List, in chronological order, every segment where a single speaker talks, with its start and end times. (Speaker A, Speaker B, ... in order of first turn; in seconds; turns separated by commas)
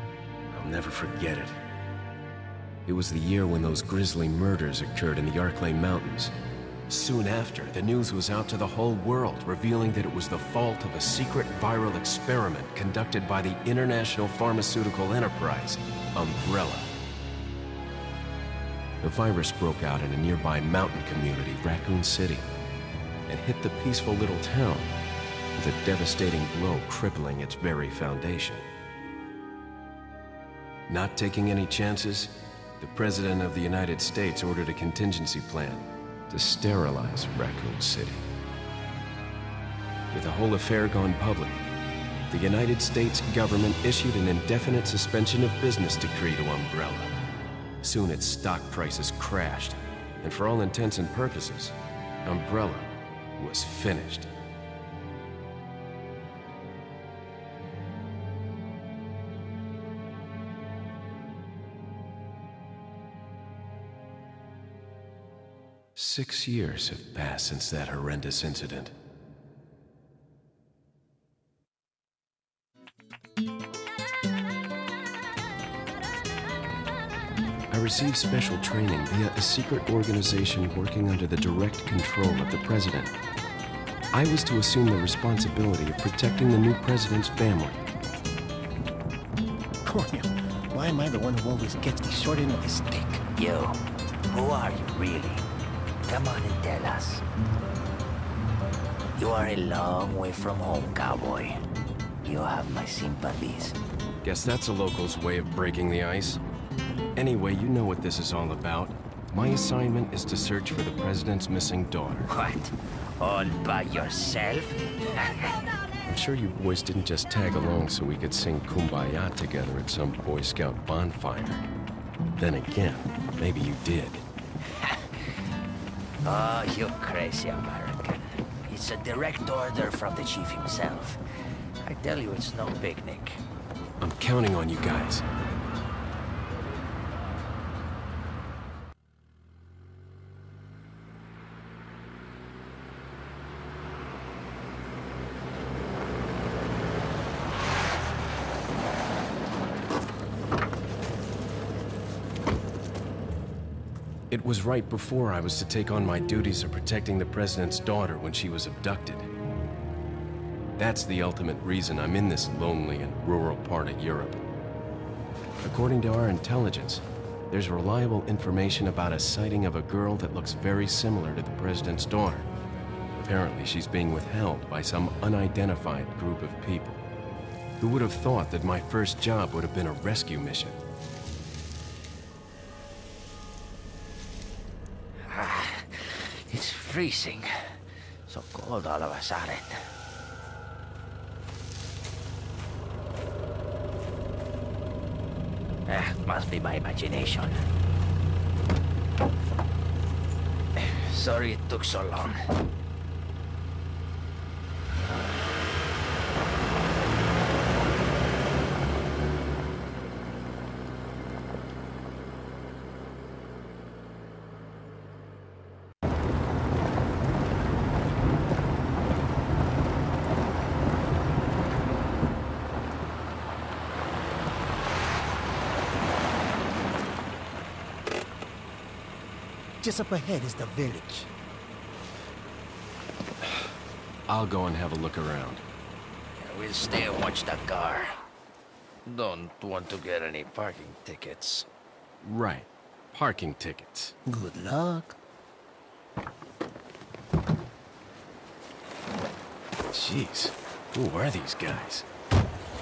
Speaker A: 0.5-1.6, Speaker A: 2.9-6.3, Speaker A: 6.9-16.9, Speaker A: 19.0-22.5, Speaker A: 23.3-24.9, Speaker A: 25.6-28.6, Speaker A: 30.9-38.2, Speaker A: 40.1-41.6, Speaker A: 42.3-47.1, Speaker A: 47.8-54.3, Speaker A: 66.0-68.9, Speaker A: 77.7-83.1, Speaker A: 84.1-87.8, Speaker B: 89.8-93.2, Speaker C: 93.3-95.4, Speaker C: 96.0-97.2, Speaker C: 99.2-101.6, Speaker C: 102.2-103.8, Speaker A: 104.2-106.4, Speaker A: 107.2-112.3, Speaker C: 112.3-115.5, Speaker A: 116.0-121.6, Speaker A: 122.4-124.2, Speaker C: 124.7-125.4, Speaker C: 126.2-131.2, Speaker C: 131.8-133.4, Speaker A: 134.0-135.2, Speaker A: 154.3-159.3, Speaker A: 160.8-164.4, Speaker A: 165.6-172.5, Speaker A: 173.2-177.1, Speaker A: 177.8-180.8, Speaker C: 185.2-189.9, Speaker C: 195.9-197.7, Speaker C: 200.8-202.6, Speaker B: 229.8-231.3, Speaker A: 234.3-235.6, Speaker C: 236.3-238.1, Speaker C: 239.1-241.7, Speaker A: 242.2-244.2, Speaker B: 244.3-245.2, Speaker A: 249.9-252.1